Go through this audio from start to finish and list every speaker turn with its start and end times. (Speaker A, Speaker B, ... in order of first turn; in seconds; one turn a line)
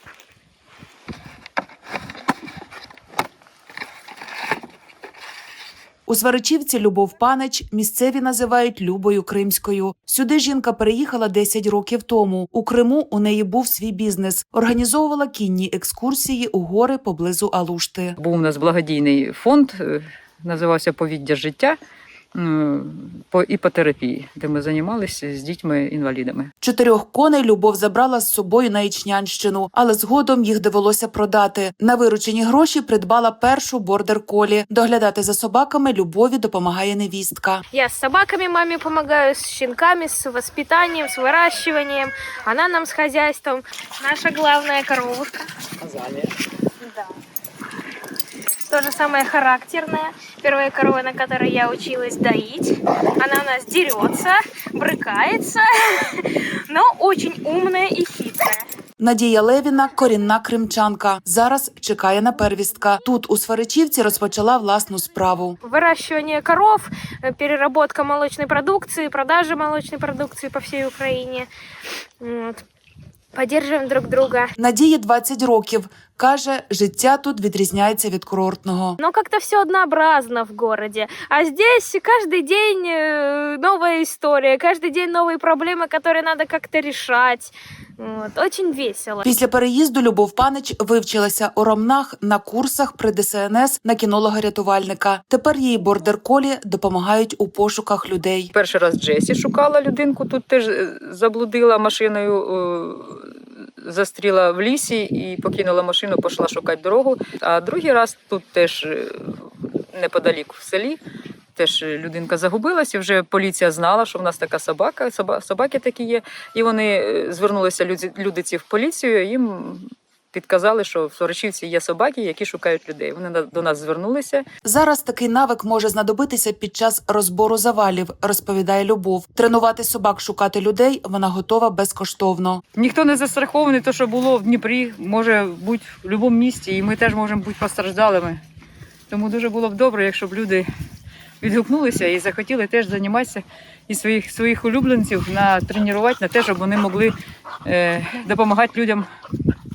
Speaker A: 6.0-18.2
Speaker B: 18.2-21.8
Speaker B: 22.3-26.5
Speaker A: 26.6-37.6
Speaker C: 37.7-45.5
Speaker B: 45.8-46.3
Speaker C: 46.8-47.1
Speaker C: 48.7-58.7
Speaker A: 59.0-65.6
Speaker C: 65.6-71.5
Speaker C: 72.2-72.6
Speaker C: 73.3-74.5
Speaker A: 74.6-79.0
Speaker C: 79.0-89.2
Speaker A: 89.2-98.5
Speaker B: 98.5-111.0
Speaker B: 111.5-124.4
Speaker A: 124.6-132.6
Speaker B: 132.8-138.4
Speaker B: 139.1-140.7
Speaker B: 141.4-147.1
Speaker B: 147.6-149.1